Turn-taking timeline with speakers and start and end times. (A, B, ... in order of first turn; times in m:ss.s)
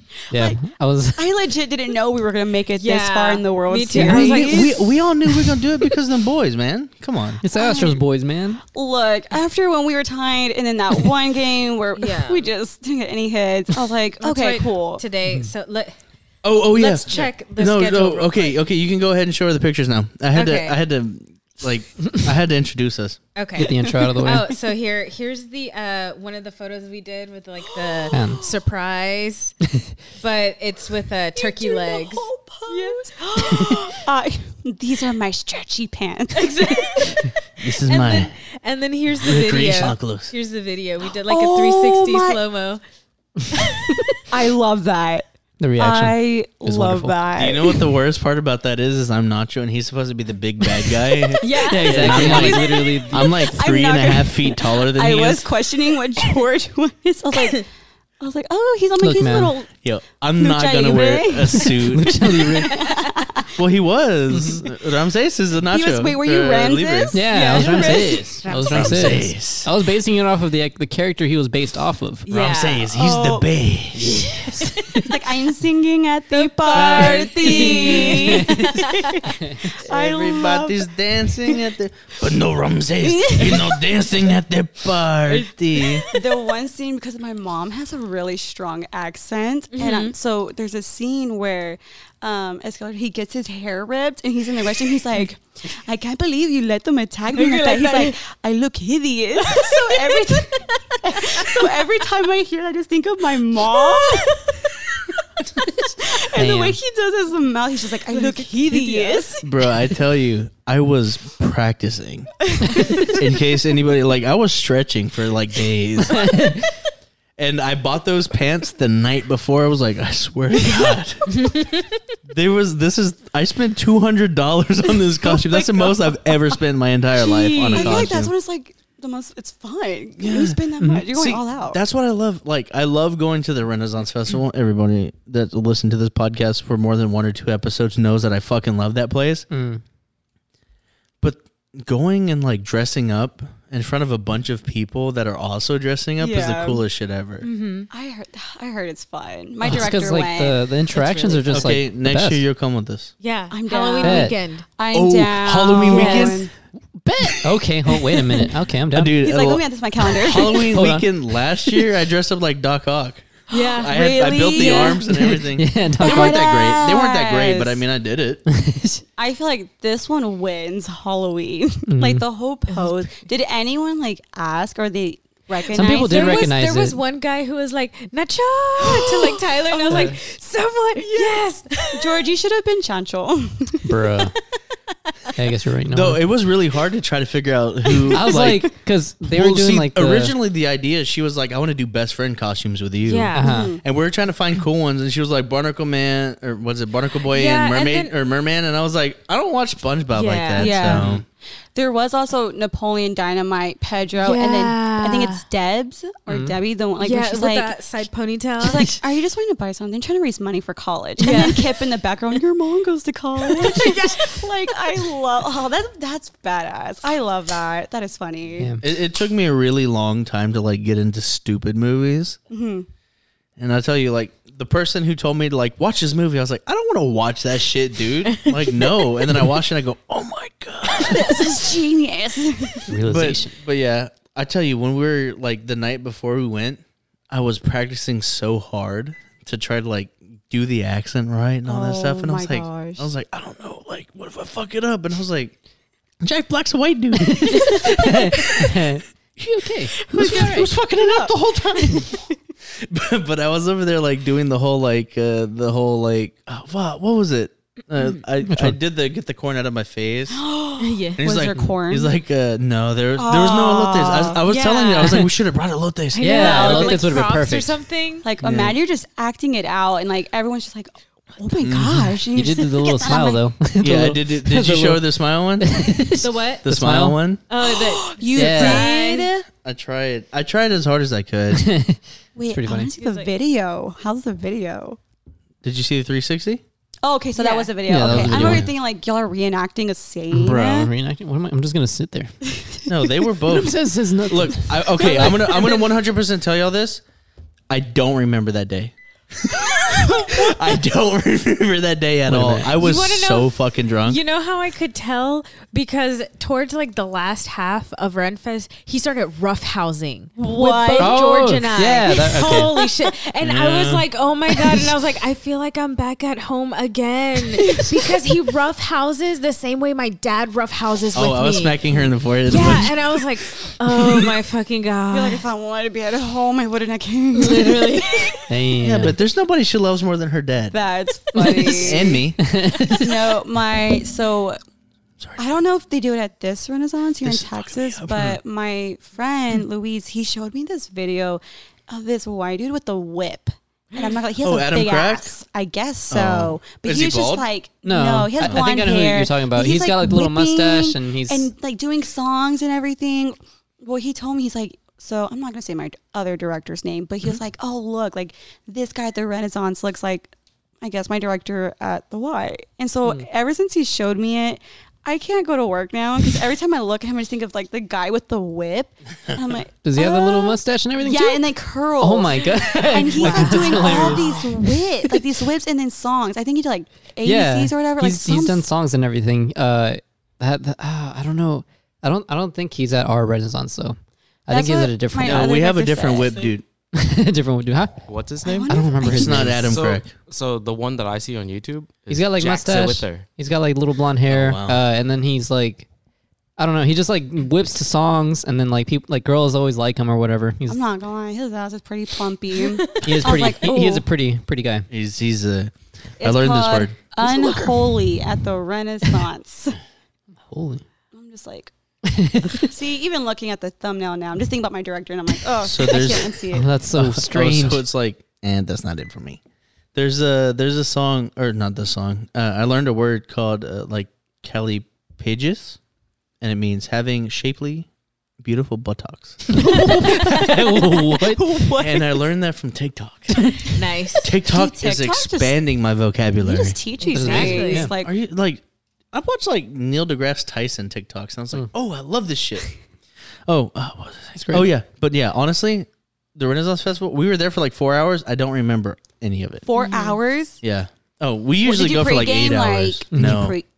0:00.3-0:00.6 A
0:00.3-0:01.2 B
0:01.1-0:04.8 A
0:02.8-0:04.8 C
0:04.0-0:07.4 D
0:07.4-0:08.6 B
0:07.5-0:08.0 A
0:08.7-0:15.0 A
0:12.0-0:12.5 C
0:14.2-0:16.0 C
0:16.4-0:23.2 D
0:16.7-0:18.6 C
0:20.3-0:20.8 C
0:23.4-0:29.6 C
0:23.6-0:24.5 B
0:27.8-0:28.6 A
0:28.1-0:28.4 B
0:30.2-0:33.5 C
0:31.4-0:37.2 A
0:36.3-0:42.8 C
0:37.6-0:38.3 D
0:39.2-0:40.3 D
0:41.2-0:42.4 A
0:43.5-0:43.9 C
0:44.3-0:45.2 A
0:45.6-0:47.2 B
0:45.8-0:47.8 A
0:47.4-0:55.5 D
0:51.4-0:53.1 C
0:51.6-0:53.3 B
0:53.2-0:57.7 A
0:58.2-0:59.7 A
0:59.0-0:59.6 B
0:59.8-1:02.4 D
1:00.4-1:03.5 A
1:01.8-1:02.7 B
1:02.7-1:03.2 C
1:03.5-1:07.3 D
1:04.3-1:04.6 B
1:05.7-1:08.4 A
1:07.1-1:12.2 B
1:07.3-1:09.3 C
1:08.5-1:09.7 D
1:12.2-1:12.9 C
1:12.3-1:14.2 D
1:12.9-1:13.5 A
1:14.0-1:15.1 B
1:14.1-1:15.0 C
1:14.9-1:20.9 A
1:16.3-1:19.2 C
1:16.7-1:18.8 B
1:19.4-1:19.7 B
1:19.8-1:26.0 D
1:23.0-1:23.8 A
1:25.8-1:26.2 C
1:26.0-1:44.5 A
1:29.7-1:30.1 C
1:37.3-1:38.1 C
1:39.4-1:41.8 C
1:43.7-1:44.5 C
1:45.9-1:49.4 A
1:46.4-1:46.8 B
1:48.1-1:49.4 C
1:49.4-1:52.3 D
1:52.8-1:53.1 A
1:52.9-1:56.6 D
1:56.2-1:56.5 B
1:57.4-2:01.4 D
2:01.3-2:02.0 C
2:02.3-2:08.3 D
2:05.2-2:06.3 A
2:07.2-2:11.8 A
2:07.7-2:08.0 C
2:10.2-2:10.6 D
2:10.8-2:11.0 B
2:11.1-2:19.5 D
2:19.5-2:19.8 B
2:21.2-2:27.5 D
2:26.2-2:26.8 A
2:27.4-2:27.9 C
2:27.9-2:30.6 A
2:29.6-2:32.4 B
2:30.9-2:33.1 D
2:33.2-2:34.6 C
2:33.5-2:36.5 A
2:34.0-2:34.4 B
2:34.9-2:36.5 D
2:35.8-2:36.4 C
2:36.9-2:39.1 B
2:38.9-2:48.4 D
2:39.2-2:40.7 A
2:40.6-2:41.0 B
2:43.5-2:45.0 C
2:43.5-2:45.4 A
2:45.5-2:46.5 B
2:46.0-2:47.8 A
2:48.5-2:49.0 B
2:49.2-2:56.5 A
2:51.9-2:52.2 B
2:55.7-3:02.2 C
2:55.7-2:57.0 B
2:58.8-3:00.2 A
2:59.9-3:00.2 B
3:01.0-3:01.4 A
3:01.9-3:03.9 A
3:03.8-3:04.4 B
3:05.4-3:06.2 B
3:05.9-3:08.7 D
3:08.1-3:10.3 B
3:09.2-3:21.2 D
3:13.1-3:13.6 C
3:13.4-3:13.8 B
3:13.4-3:13.8 A
3:17.3-3:18.1 C
3:20.1-3:21.0 C
3:20.6-3:21.2 A
3:21.7-3:27.7 A
3:24.2-3:25.4 C
3:26.3-3:26.6 B
3:27.0-3:29.0 C
3:28.6-3:38.8 A
3:31.2-3:31.8 C
3:33.4-3:35.1 C
3:38.6-3:38.8 B
3:38.8-3:42.4 D
3:42.5-3:42.9 A
3:43.6-3:51.6 D
3:50.9-3:52.9 A
3:52.9-3:53.6 B
3:53.0-4:05.5 D
4:01.6-4:03.1 A
4:06.2-4:08.2 D
4:07.2-4:10.7 B
4:10.1-4:20.4 D
4:10.1-4:12.2 A
4:18.5-4:18.8 B
4:20.3-4:22.1 A
4:20.8-4:21.2 C
4:21.2-4:26.8 D
4:23.2-4:24.4 A
4:24.5-4:25.3 C
4:26.1-4:28.2 C
4:26.2-4:27.7 B
4:26.4-4:27.2 A
4:28.2-4:33.4 A
4:28.4-4:28.8 D
4:31.6-4:32.1 D
4:32.3-4:35.0 B
4:33.8-4:35.9 D
4:35.6-4:37.2 B
4:36.2-4:36.6 C
4:36.6-4:37.4 D
4:37.5-4:39.3 C
4:37.6-4:39.5 A
4:38.4-4:38.9 B
4:39.6-4:41.7 D
4:41.5-4:42.9 B
4:42.4-4:45.0 A
4:42.8-4:43.3 C
4:45.6-4:46.6 D
4:47.0-4:50.6 A
4:47.4-4:47.7 C
4:47.9-4:48.7 B
4:48.0-4:48.7 D
4:50.3-4:50.9 D
4:50.4-4:52.4 B
4:52.5-4:52.9 A
4:52.9-4:57.0 D
4:53.5-4:54.8 B
4:55.2-4:55.7 C
4:57.7-5:04.2 D
4:59.9-5:00.3 A
5:02.3-5:02.8 B
5:02.8-5:21.8 C
5:10.4-5:11.2 A
5:11.0-5:12.7 B
5:13.4-5:14.0 D
5:21.1-5:23.0 D
5:22.5-5:25.4 C
5:25.1-5:28.4 A
5:27.3-5:28.4 C
5:28.5-5:29.2 B
5:28.8-5:30.8 D
5:30.7-5:32.3 A
5:31.3-5:33.1 B
5:31.8-5:32.4 D
5:32.9-5:34.6 A
5:35.4-6:18.6 A
5:37.2-5:38.4 D
5:44.4-5:45.4 D
5:46.1-5:47.5 D
5:47.8-5:51.5 B
6:09.8-6:14.4 B
6:12.9-6:14.5 C
6:17.2-6:25.5 B
6:24.5-6:26.5 A
6:25.2-6:26.6 D
6:26.9-6:28.0 B
6:28.0-6:28.8 E
6:28.4-6:29.3 A
6:28.7-6:29.7 B
6:29.0-6:30.1 D
6:29.2-6:33.3 E
6:32.1-6:35.9 B
6:34.3-6:34.8 D
6:34.3-6:34.6 E
6:36.6-6:40.8 B
6:40.7-6:44.0 A
6:42.6-6:43.4 C
6:43.0-6:44.9 B
6:44.9-6:47.7 D
6:46.2-6:49.8 A
6:50.5-6:50.8 B
6:51.1-6:51.7 A
6:52.1-6:52.6 B
6:52.5-6:56.7 A
6:55.6-6:56.4 D
6:56.5-6:57.8 B
6:56.9-6:59.4 D
6:59.9-7:05.8 D
7:06.4-7:07.9 D
7:08.4-7:09.6 D
7:09.6-7:11.4 B
7:09.6-7:12.2 A
7:11.8-7:22.7 D
7:13.6-7:14.3 C
7:14.4-7:15.6 A
7:16.4-7:18.1 A
7:17.0-7:17.9 C
7:17.1-7:17.9 B
7:23.5-7:29.6 D
7:24.4-7:24.7 B
7:29.6-7:30.6 A
7:29.7-7:30.2 C
7:30.6-7:33.6 D
7:31.6-7:33.6 A
7:33.1-7:33.5 B